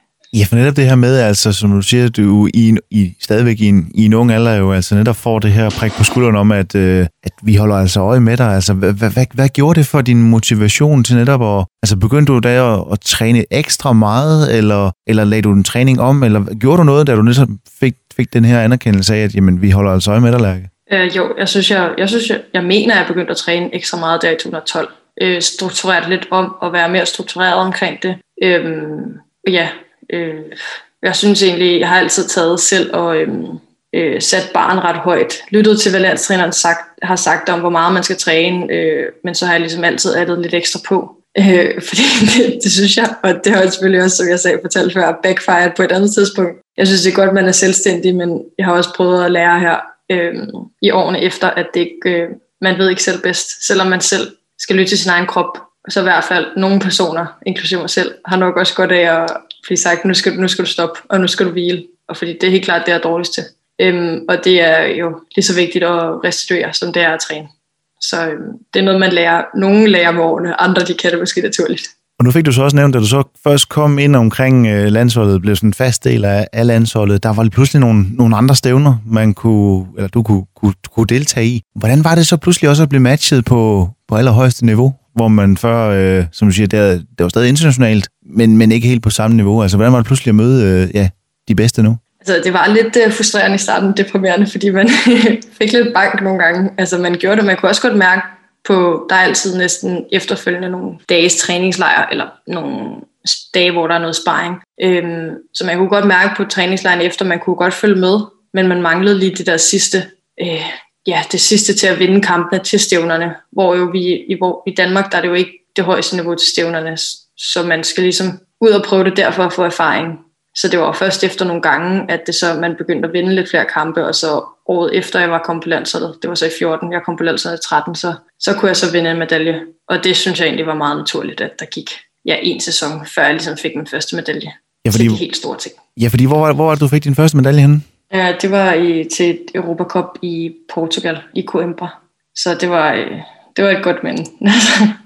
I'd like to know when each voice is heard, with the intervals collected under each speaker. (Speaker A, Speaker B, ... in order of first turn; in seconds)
Speaker A: 0.3-20.7, 72.2-92.0, 134.8-135.2, 136.0-137.8
Speaker B: 20.9-71.9, 92.2-135.8, 138.1-145.0